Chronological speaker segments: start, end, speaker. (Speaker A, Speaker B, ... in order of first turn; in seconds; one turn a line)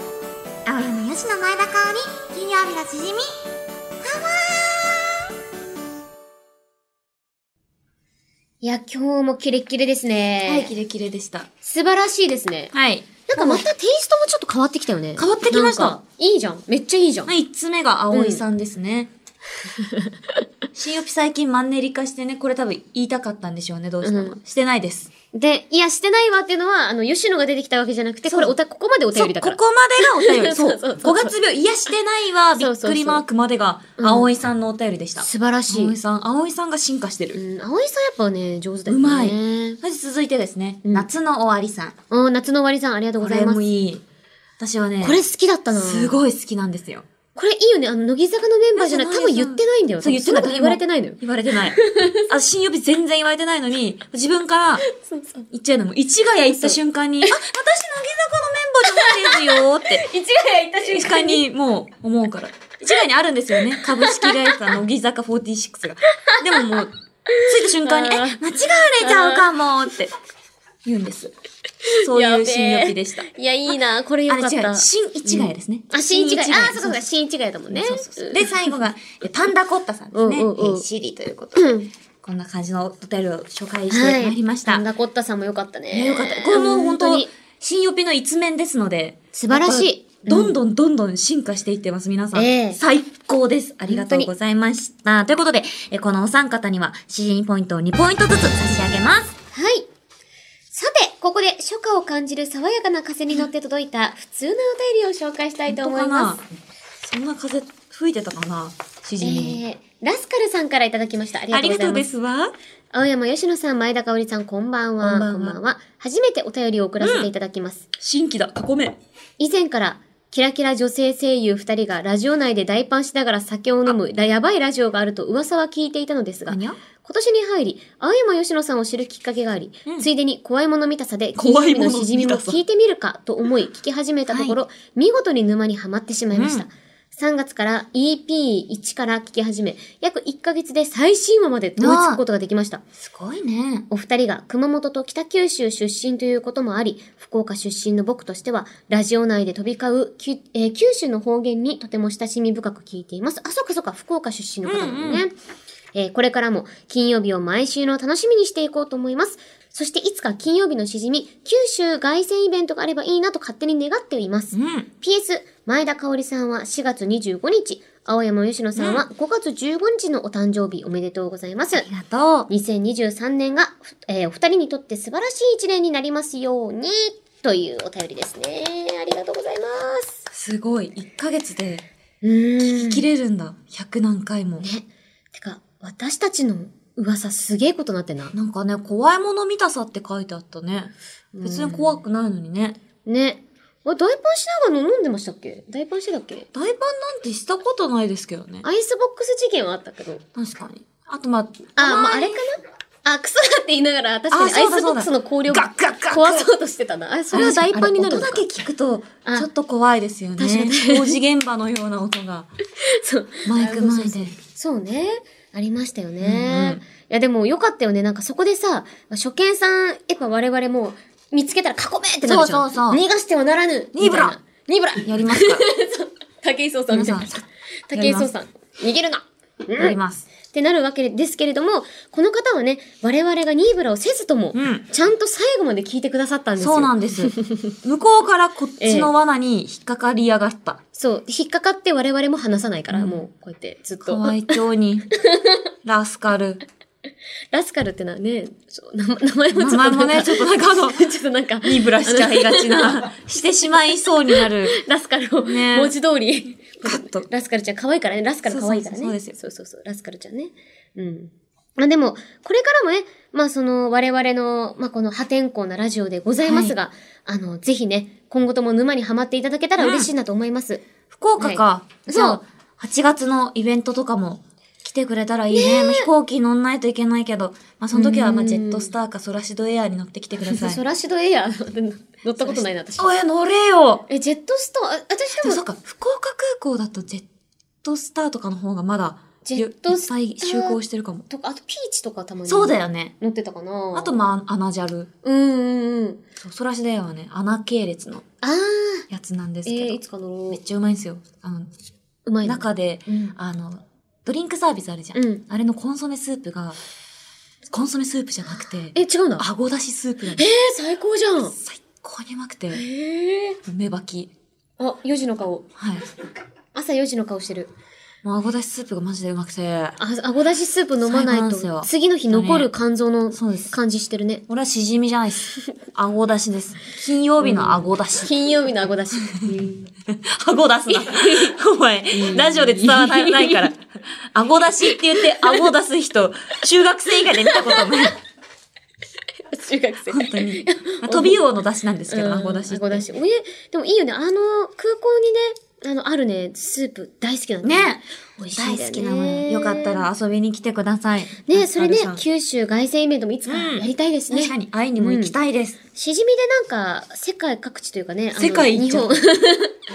Speaker A: 0.7-3.4
Speaker A: 4.0-5.1
Speaker B: 8.6-10.8
Speaker C: 10.4-11.5
Speaker B: 11.6-12.7
Speaker C: 12.7-13.7
Speaker B: 13.2-17.3
Speaker C: 15.2-16.0
Speaker C: 17.2-19.1
Speaker B: 18.1-18.4
Speaker B: 19.8-20.1
Speaker C: 20.7-25.1
Speaker B: 24.0-24.4
Speaker B: 25.3-31.3
Speaker C: 28.2-28.6
Speaker C: 29.1-37.4
Speaker B: 32.6-33.2
Speaker B: 34.0-34.3
Speaker B: 35.2-36.0
Speaker B: 37.3-39.8
Speaker C: 38.9-42.0
Speaker B: 40.8-41.1
Speaker B: 42.1-43.7
Speaker C: 43.2-44.0
Speaker C: 44.6-45.2
Speaker B: 45.0-46.2
Speaker C: 45.7-47.0
Speaker B: 47.3-52.3
Speaker C: 48.7-54.9
Speaker B: 54.9-55.5
Speaker C: 55.5-60.0
Speaker B: 56.5-57.4
Speaker B: 58.8-61.4
Speaker C: 60.8-70.1
Speaker B: 63.8-64.4
Speaker B: 67.3-68.4
Speaker B: 69.0-69.5
Speaker C: 70.8-71.3
Speaker B: 71.9-78.5
Speaker C: 72.0-73.3
Speaker C: 74.3-77.1
Speaker C: 77.7-81.7
Speaker B: 80.1-80.8
Speaker B: 81.5-81.9
Speaker C: 82.2-84.8
Speaker B: 83.9-87.3
Speaker C: 85.9-99.3
Speaker B: 89.3-90.6
Speaker B: 92.3-92.8
Speaker B: 93.9-94.3
Speaker B: 99.5-99.9
Speaker B: 100.7-106.4
Speaker C: 105.7-106.4
Speaker C: 107.0-109.6
Speaker B: 109.2-112.1
Speaker C: 111.5-112.5
Speaker B: 112.9-117.8
Speaker C: 115.0-115.6
Speaker C: 117.0-117.3
Speaker C: 118.0-119.0
Speaker B: 119.4-142.8
Speaker C: 126.5-126.8
Speaker C: 131.3-132.6
Speaker C: 134.3-134.6
Speaker C: 136.3-136.7
Speaker C: 141.8-142.2
Speaker C: 143.0-143.9
Speaker B: 143.9-155.3
Speaker C: 154.6-155.2
Speaker B: 155.9-171.9
Speaker C: 164.5-164.9
Speaker C: 168.8-169.1
Speaker C: 171.8-172.5
Speaker B: 172.5-180.2
Speaker C: 180.3-181.8
Speaker B: 182.2-183.1
Speaker C: 182.6-184.7
Speaker B: 184.6-188.3
Speaker C: 188.3-192.8
Speaker B: 191.3-192.0
Speaker B: 193.1-196.5
Speaker C: 196.5-198.7
Speaker B: 198.6-200.2
Speaker C: 200.3-202.4
Speaker B: 201.8-208.4
Speaker C: 204.3-206.5
Speaker C: 207.3-212.5
Speaker B: 210.4-211.2
Speaker B: 212.8-237.7
Speaker C: 213.4-214.3
Speaker C: 216.2-216.8
Speaker C: 222.2-223.0
Speaker C: 223.9-224.4
Speaker C: 225.0-225.7
Speaker C: 226.9-228.3
Speaker C: 229.8-230.2
Speaker C: 234.5-234.9
Speaker C: 236.6-240.8
Speaker B: 238.8-239.1
Speaker B: 240.9-244.6
Speaker C: 242.9-243.2
Speaker C: 244.0-245.1
Speaker B: 245.2-245.6
Speaker C: 245.8-246.6
Speaker B: 247.5-253.1
Speaker C: 249.5-251.0
Speaker C: 251.6-254.8
Speaker B: 254.3-270.8
Speaker C: 255.4-255.9
Speaker C: 256.8-257.3
Speaker C: 258.5-259.4
Speaker C: 266.4-266.8
Speaker C: 269.8-270.1
Speaker C: 271.1-280.8
Speaker B: 271.4-272.4
Speaker B: 275.5-276.1
Speaker B: 277.9-278.9
Speaker B: 280.4-283.1
Speaker C: 282.4-284.1
Speaker B: 284.1-285.6
Speaker C: 285.4-287.2
Speaker C: 287.8-291.2
Speaker B: 289.4-294.2
Speaker C: 292.4-293.1
Speaker C: 293.9-295.1
Speaker B: 295.2-296.2
Speaker C: 296.4-298.2
Speaker B: 298.4-299.1
Speaker C: 299.1-301.7
Speaker B: 299.6-300.6
Speaker B: 302.2-303.3
Speaker C: 302.4-306.8
Speaker B: 305.1-305.4
Speaker C: 307.7-310.4
Speaker B: 308.9-309.4
Speaker B: 310.3-311.6
Speaker C: 311.6-312.8
Speaker B: 312.7-313.6
Speaker C: 313.6-314.3
Speaker B: 314.8-315.7
Speaker C: 315.8-316.1
Speaker B: 316.7-317.7
Speaker C: 318.2-320.0
Speaker B: 320.0-324.4
Speaker C: 321.0-322.7
Speaker C: 323.3-323.7
Speaker C: 324.5-328.3
Speaker B: 327.4-329.9
Speaker C: 330.1-338.2
Speaker B: 330.9-331.6
Speaker B: 332.1-333.7
Speaker B: 335.2-335.6
Speaker B: 337.5-338.0
Speaker B: 339.5-341.4
Speaker C: 340.1-343.1
Speaker B: 342.1-350.1
Speaker C: 347.6-352.2
Speaker B: 351.5-355.3
Speaker C: 353.4-355.8
Speaker B: 355.9-359.8
Speaker C: 358.4-359.2